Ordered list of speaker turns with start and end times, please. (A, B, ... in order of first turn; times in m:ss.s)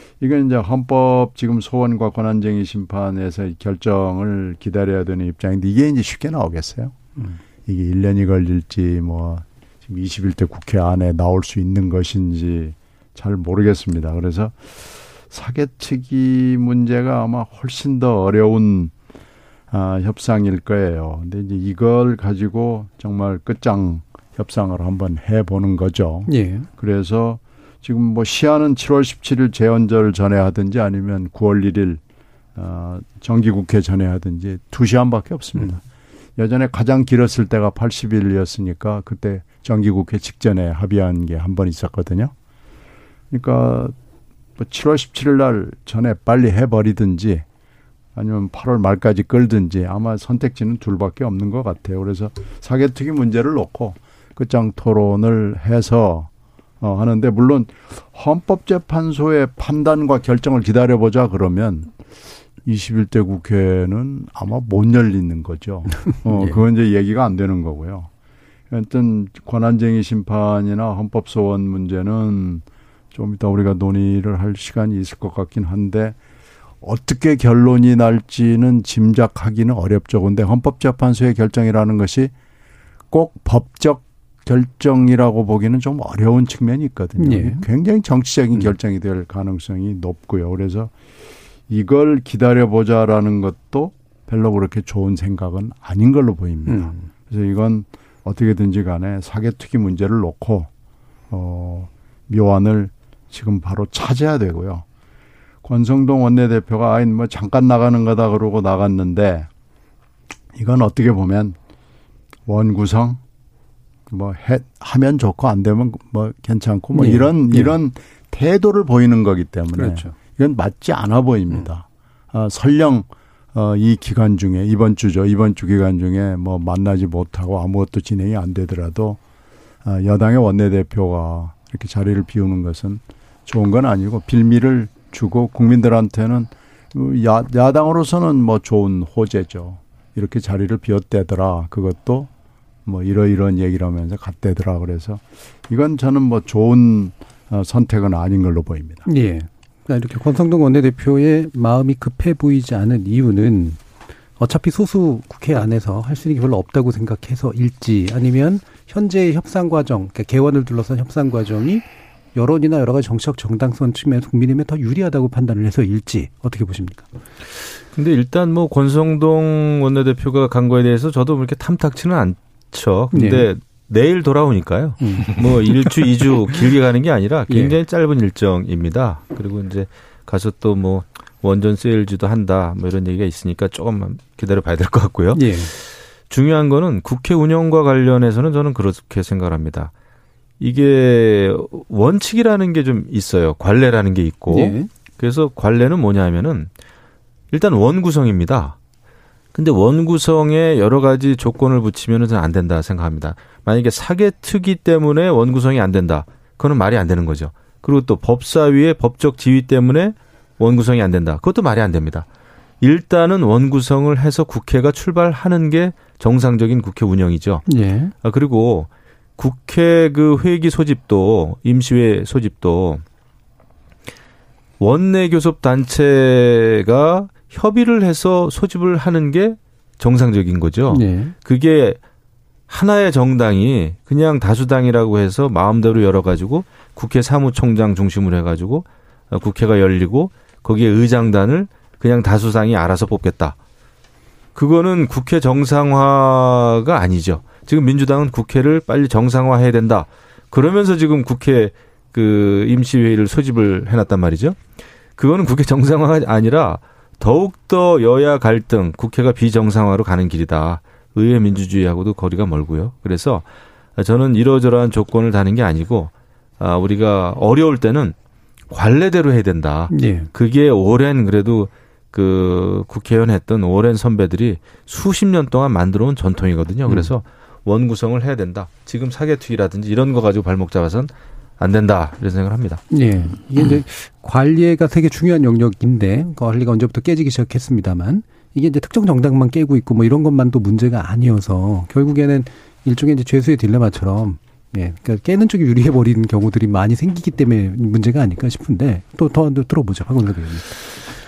0:00.2-0:07.0 A
0:07.7-0:18.9 A
0:19.7-0:32.0 A
0:26.3-0:26.7 B
0:32.6-0:35.8 A
0:36.4-0:42.3 A
0:43.3-0:44.0 A
0:44.6-0:47.5 A
0:48.2-1:01.9 A
1:02.6-1:08.1 A
1:06.3-1:06.6 B
1:08.7-1:16.2 A
1:16.8-1:22.3 A
1:23.1-1:30.9 A
1:27.2-1:27.6 B
1:31.7-1:40.7 A
1:36.7-1:37.1 B
1:41.3-1:44.8 A
1:45.6-1:49.5 A
1:50.6-1:51.6 A
1:52.5-1:53.2 A
1:54.1-2:09.2 A
1:56.9-1:57.7 B
1:59.7-2:00.1 B
2:09.8-2:22.3 A
2:22.9-2:29.1 A
2:29.1-2:33.8 B
2:34.4-2:41.8 B
2:42.4-2:47.1 B
2:47.9-3:09.9 C
2:53.1-2:53.5 B
2:55.0-2:55.9 B
2:57.5-2:57.7 B
3:05.3-3:05.7 B
3:10.6-3:16.7 C
3:14.5-3:14.9 B
3:17.5-3:18.8 C
3:19.5-3:32.3 C
3:32.8-3:37.7 C
3:37.7-3:38.1 B
3:38.2-3:43.0 C
3:44.8-3:52.0 C
3:50.9-3:51.3 B
3:52.7-4:03.6 C
4:04.6-4:14.6 C
4:15.2-4:23.5 C
4:24.0-4:28.2 C
4:28.7-4:42.8 C
4:29.9-4:30.3 B
4:42.9-5:00.8 B